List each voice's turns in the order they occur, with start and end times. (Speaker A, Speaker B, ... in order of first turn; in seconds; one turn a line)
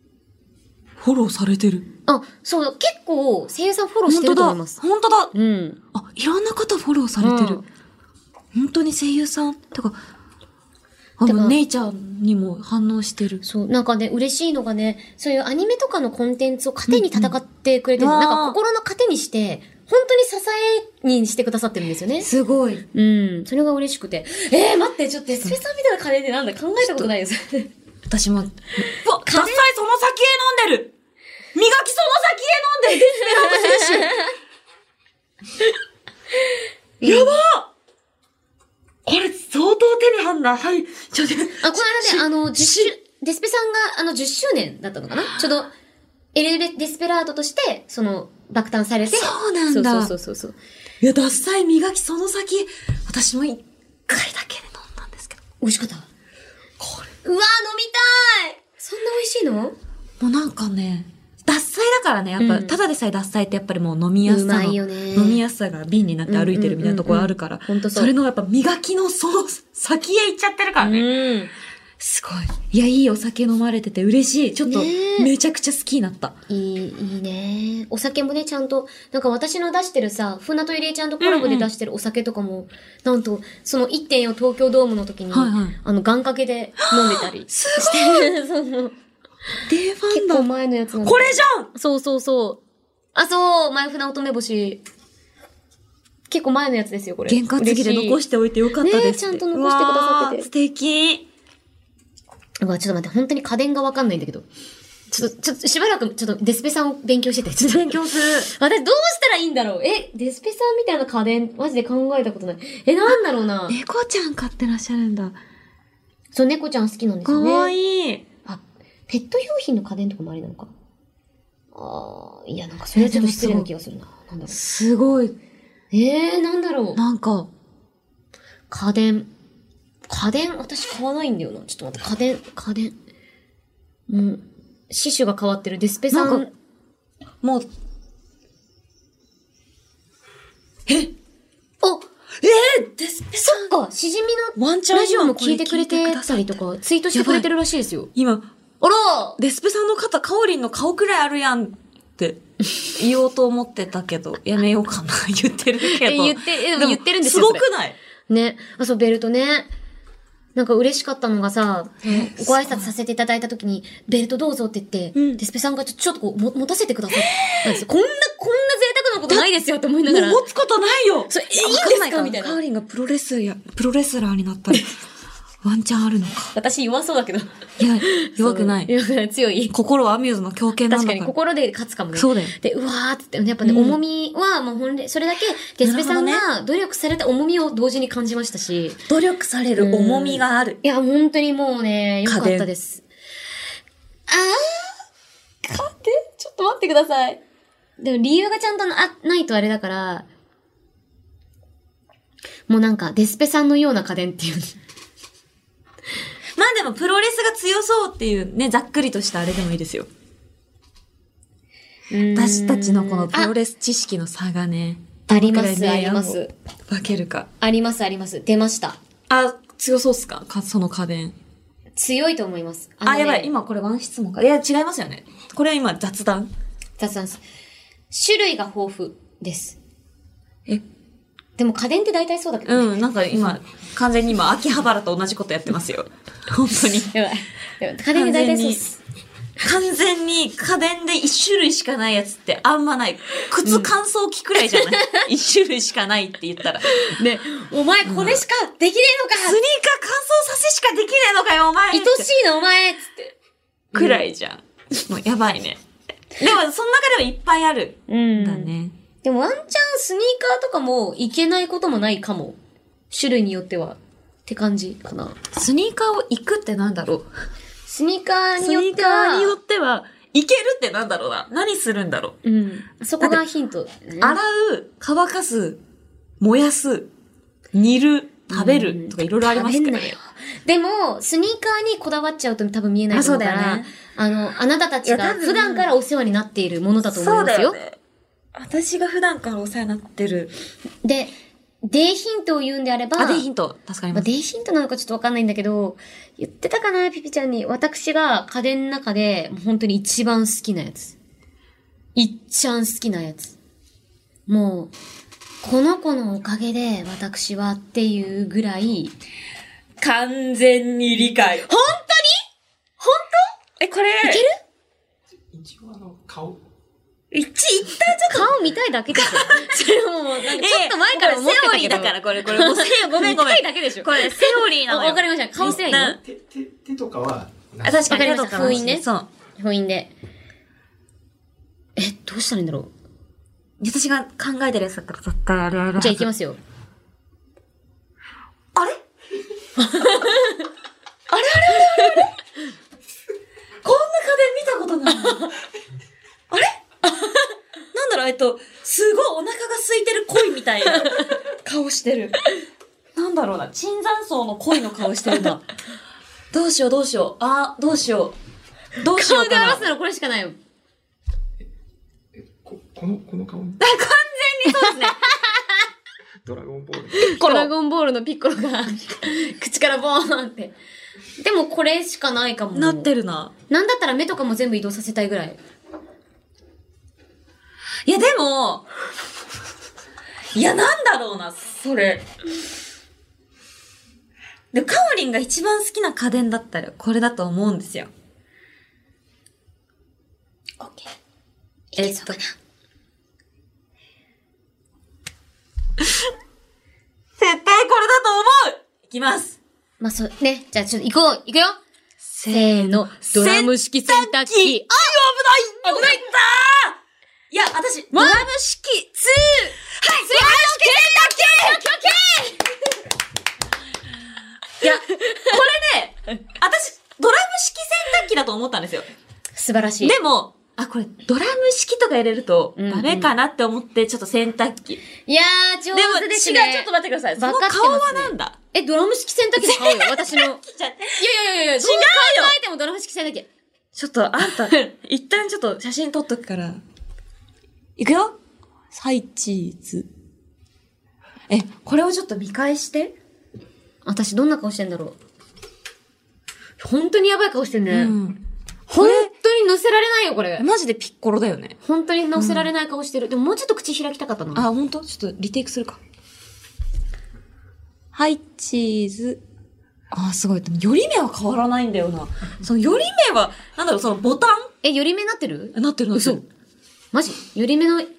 Speaker A: 1.0-1.9
Speaker B: 2.1-4.8
Speaker A: 4.1-5.3
Speaker B: 5.3-5.8
Speaker A: 5.9-7.6
Speaker B: 7.2-7.6
Speaker A: 8.5-9.9
Speaker A: 11.2-13.4
Speaker B: 11.2-11.6
Speaker B: 13.4-22.3
Speaker A: 16.9-17.3
Speaker A: 18.0-18.6
Speaker A: 22.2-22.8
Speaker B: 22.9-27.7
Speaker A: 28.1-30.9
Speaker B: 29.2-29.6
Speaker A: 31.5-34.2
Speaker B: 33.0-34.3
Speaker B: 37.0-37.4
Speaker A: 37.0-37.7
Speaker A: 39.0-42.9
Speaker B: 41.6-45.7
Speaker B: 46.3-50.6
Speaker A: 49.1-50.1
Speaker A: 51.0-55.4
Speaker B: 55.6-56.1
Speaker A: 56.8-57.1
Speaker B: 57.2-59.8
Speaker A: 60.2-71.1
Speaker B: 62.4-62.8
Speaker B: 64.2-65.4
Speaker B: 66.2-68.1
Speaker B: 70.8-71.5
Speaker A: 72.0-76.3
Speaker B: 74.7-75.3
Speaker B: 76.5-88.9
Speaker A: 81.2-81.7
Speaker A: 85.3-85.8
Speaker A: 86.9-88.3
Speaker A: 89.7-90.5
Speaker B: 90.1-92.6
Speaker A: 91.0-91.7
Speaker B: 93.1-94.8
Speaker B: 96.3-98.2
Speaker A: 97.3-101.2
Speaker B: 98.8-100.5
Speaker B: 102.6-104.4
Speaker B: 105.1-113.8
Speaker A: 107.6-108.5
Speaker A: 113.7-115.4
Speaker B: 116.3-117.7
Speaker A: 117.2-118.2
Speaker B: 118.4-120.7
Speaker B: 121.7-124.5
Speaker A: 122.9-123.7
Speaker A: 124.5-125.3
Speaker B: 125.9-127.0
Speaker A: 127.0-127.5
Speaker B: 128.7-129.3
Speaker B: 130.1-132.9
Speaker B: 134.1-136.5
Speaker A: 136.1-136.5
Speaker A: 137.4-137.7
Speaker A: 140.9-141.1
Speaker A: 142.4-143.7
Speaker B: 143.4-148.1
Speaker A: 144.6-146.6
Speaker A: 147.1-147.5
Speaker A: 148.1-148.5
Speaker B: 148.8-149.4
Speaker A: 149.4-158.0
Speaker B: 155.8-157.7
Speaker B: 158.3-159.7
Speaker B: 160.6-170.4
Speaker A: 162.1-162.9
Speaker A: 165.1-165.4
Speaker A: 167.3-167.7
Speaker A: 170.1-174.8
Speaker B: 171.3-172.6
Speaker A: 175.6-176.5
Speaker B: 176.5-177.5
Speaker A: 177.8-178.9
Speaker B: 178.0-179.7
Speaker A: 179.7-181.3
Speaker B: 180.9-189.0
Speaker A: 182.1-182.5
Speaker A: 183.6-184.0
Speaker A: 185.8-186.4
Speaker A: 189.1-190.8
Speaker B: 189.8-193.0
Speaker A: 192.2-192.7
Speaker B: 194.3-194.9
Speaker B: 195.6-197.4
Speaker B: 198.0-200.2
Speaker B: 202.7-204.7
Speaker A: 206.6-210.1
Speaker B: 212.1-213.5
Speaker A: 212.3-217.5
Speaker B: 215.3-216.5
Speaker B: 217.6-219.0
Speaker A: 219.3-221.3
Speaker B: 221.9-223.5
Speaker A: 223.0-226.5
Speaker B: 227.0-227.4
Speaker B: 228.1-229.8
Speaker B: 231.6-232.9
Speaker A: 232.7-237.1
Speaker B: 237.1-239.0
Speaker A: 238.1-238.8
Speaker A: 239.6-247.2
Speaker B: 243.6-243.9
Speaker B: 244.8-245.2
Speaker B: 246.9-249.6
Speaker A: 248.1-248.4
Speaker A: 249.4-252.3
Speaker B: 251.9-253.3
Speaker B: 253.9-254.2
Speaker A: 253.9-255.8
Speaker A: 256.4-258.9
Speaker B: 258.1-258.7
Speaker B: 259.2-262.6
Speaker B: 263.1-265.4
Speaker A: 265.5-267.3
Speaker B: 267.9-269.5
Speaker A: 268.6-272.4
Speaker B: 272.4-274.4
Speaker A: 274.2-275.8
Speaker A: 276.4-277.1
Speaker A: 277.7-280.2
Speaker B: 278.5-287.8
Speaker A: 283.1-283.9
Speaker A: 285.0-285.9
Speaker A: 287.1-288.0
Speaker A: 288.5-290.5
Speaker B: 291.0-291.3
Speaker B: 291.8-293.4
Speaker A: 293.2-294.3
Speaker B: 294.1-301.1
Speaker B: 302.1-303.6
Speaker B: 304.5-304.9
Speaker B: 305.6-309.1
Speaker A: 310.0-311.7
Speaker B: 311.7-312.4
Speaker B: 313.0-313.5
Speaker A: 313.8-314.4
Speaker B: 314.2-314.6
Speaker C: 315.5-316.6
Speaker A: 317.3-318.5
Speaker B: 318.3-326.2
Speaker A: 319.1-319.7
Speaker A: 320.5-326.2
Speaker C: 326.2-328.9
Speaker A: 327.8-329.3
Speaker B: 328.1-329.1
Speaker B: 329.6-330.1
Speaker B: 332.0-332.9
Speaker A: 333.8-336.3
Speaker B: 336.0-336.6
Speaker B: 339.8-340.6
Speaker A: 341.3-342.3
Speaker A: 343.8-345.5
Speaker A: 346.5-347.1
Speaker A: 347.9-352.5
Speaker A: 353.1-355.7
Speaker A: 356.5-358.4
Speaker A: 359.0-359.9
Speaker B: 359.1-360.6
Speaker C: 362.3-363.8
Speaker A: 363.8-365.2
Speaker B: 364.9-365.4
Speaker C: 366.4-367.3
Speaker A: 367.2-367.7
Speaker B: 367.2-370.7
Speaker B: 371.4-373.1
Speaker A: 372.7-373.5
Speaker B: 373.7-375.6
Speaker A: 378.1-378.9
Speaker A: 380.5-382.2
Speaker A: 384.7-388.1
Speaker A: 390.8-391.1
Speaker B: 391.9-392.5
Speaker A: 392.0-392.4
Speaker A: 397.4-399.6
Speaker B: 400.0-401.8
Speaker A: 402.2-407.0
Speaker B: 402.5-404.9
Speaker B: 405.8-406.2
Speaker A: 407.5-409.0
Speaker B: 408.1-412.7
Speaker A: 409.9-412.0
Speaker A: 414.8-419.1
Speaker B: 419.5-420.1
Speaker A: 420.0-425.0
Speaker B: 422.8-423.3
Speaker B: 425.3-430.6
Speaker A: 425.9-428.6
Speaker A: 429.6-431.2
Speaker B: 431.2-433.5
Speaker A: 431.8-432.5
Speaker A: 433.9-436.8
Speaker A: 438.0-438.4
Speaker A: 438.9-440.1
Speaker A: 441.5-443.1
Speaker B: 444.0-445.1
Speaker B: 446.8-448.1
Speaker A: 447.9-448.4
Speaker B: 448.9-450.6
Speaker A: 448.9-449.3
Speaker A: 450.6-451.8
Speaker B: 451.8-454.6
Speaker A: 452.4-452.7
Speaker A: 454.5-456.0
Speaker A: 458.1-459.4
Speaker A: 460.1-464.7
Speaker B: 464.8-466.4
Speaker A: 465.7-466.4
Speaker B: 467.1-468.1